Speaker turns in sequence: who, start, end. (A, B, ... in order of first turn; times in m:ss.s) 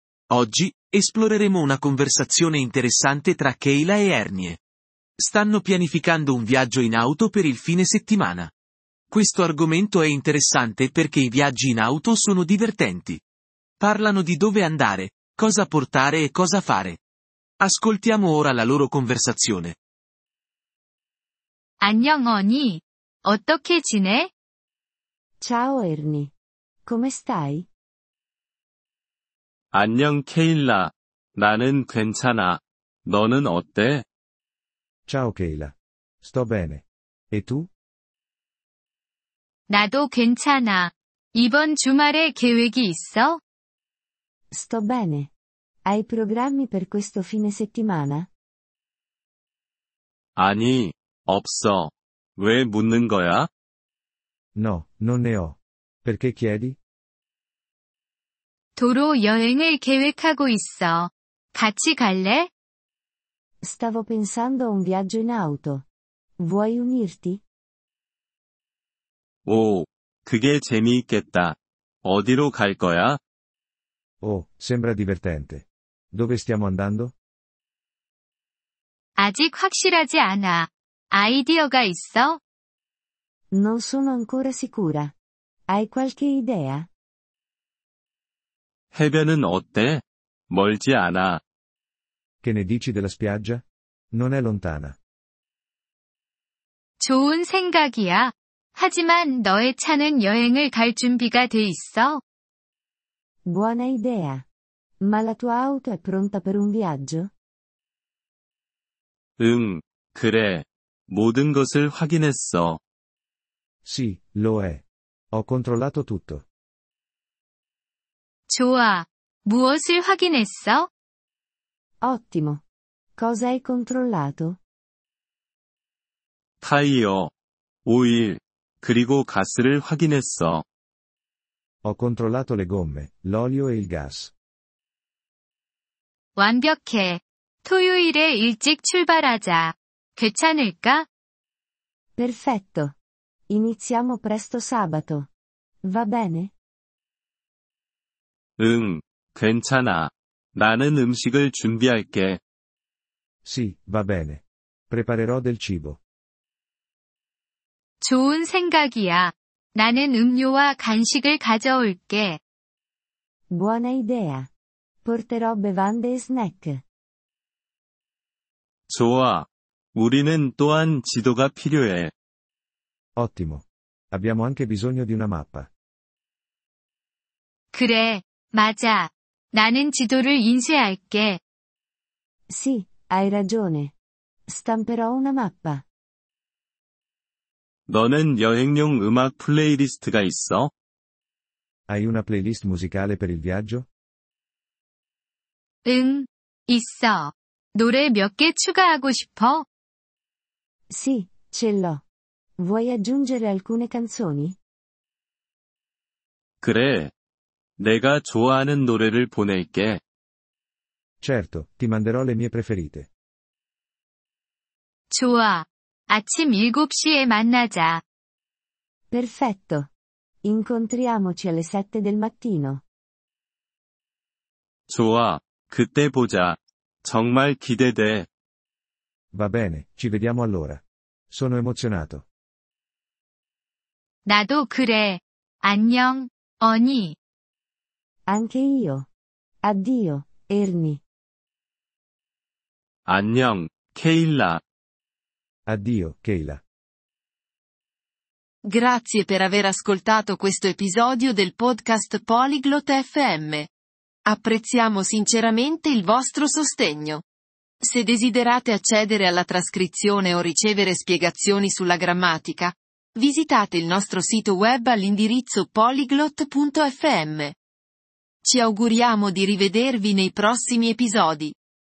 0:00.3-0:04.6 A
0:05.2-0:08.5 A
0:09.1-0:13.2 A
0:13.8-0:17.0 A
0:17.6-0:19.8 A
0:21.8-0:24.3 B
0:25.4-0:26.3 C
0:26.8-0:27.7 C
0:29.7-0:34.0 D
0:35.1-0:37.7 E
0:39.7-0:43.4 B
0:44.5-0:45.3 C
0:45.8-0:48.3 C
0:50.4-0:53.5 D
0:54.6-0:56.8 E
0:58.8-1:02.5 B
1:03.6-1:05.8 C
1:06.4-1:07.4 C
1:09.4-1:13.2 D
1:14.2-1:17.1 E
1:19.2-1:22.4 B
1:23.5-1:25.1 C
1:25.7-1:26.9 C
1:28.9-1:31.4 D
1:32.4-1:35.0 E
1:37.0-1:42.2 B
1:43.4-1:44.4 C
1:45.0-1:47.3 C
1:49.4-1:52.8 D
1:53.8-1:56.4 E
1:58.5-2:00.9 B
2:02.0-2:02.6 C
2:03.2-2:04.6 C
2:06.6-2:07.3 D
2:07.8-2:10.6 D
2:11.8-2:14.3 E
2:16.4-2:21.1 B
2:22.2-2:22.9 C
2:23.5-2:25.3 C
2:25.8-2:26.5 C
2:28.6-2:32.4 D
2:33.4-2:36.0 E
2:38.0-2:42.4 B
2:43.5-2:44.5 C
2:45.0-2:46.8 C
2:48.9-2:52.1 D
2:53.2-2:55.7 E
2:57.7-3:01.4 B
3:02.5-3:03.9 C
3:04.5-3:05.8 C
3:07.9-3:10.7 D
3:11.9-3:13.9 E
3:15.8-3:19.6 B
3:20.9-3:22.0 C
3:22.6-3:24.6 C
3:26.6-3:27.1 D
3:27.8-3:30.0 D
3:31.2-3:33.1 E
3:35.1-3:38.0 B
3:39.1-3:39.9 C
3:40.4-3:42.8 C
3:44.9-3:48.3 D
3:49.3-3:52.2 E
3:54.2-3:57.2 B
3:58.3-3:59.1 C
3:59.6-4:01.0 C
4:03.0-4:04.6 D
4:05.6-4:06.6 E
4:08.6-4:13.7 F
4:14.2-4:17.2 F
4:17.8-4:27.6 F
4:28.4-4:31.5 F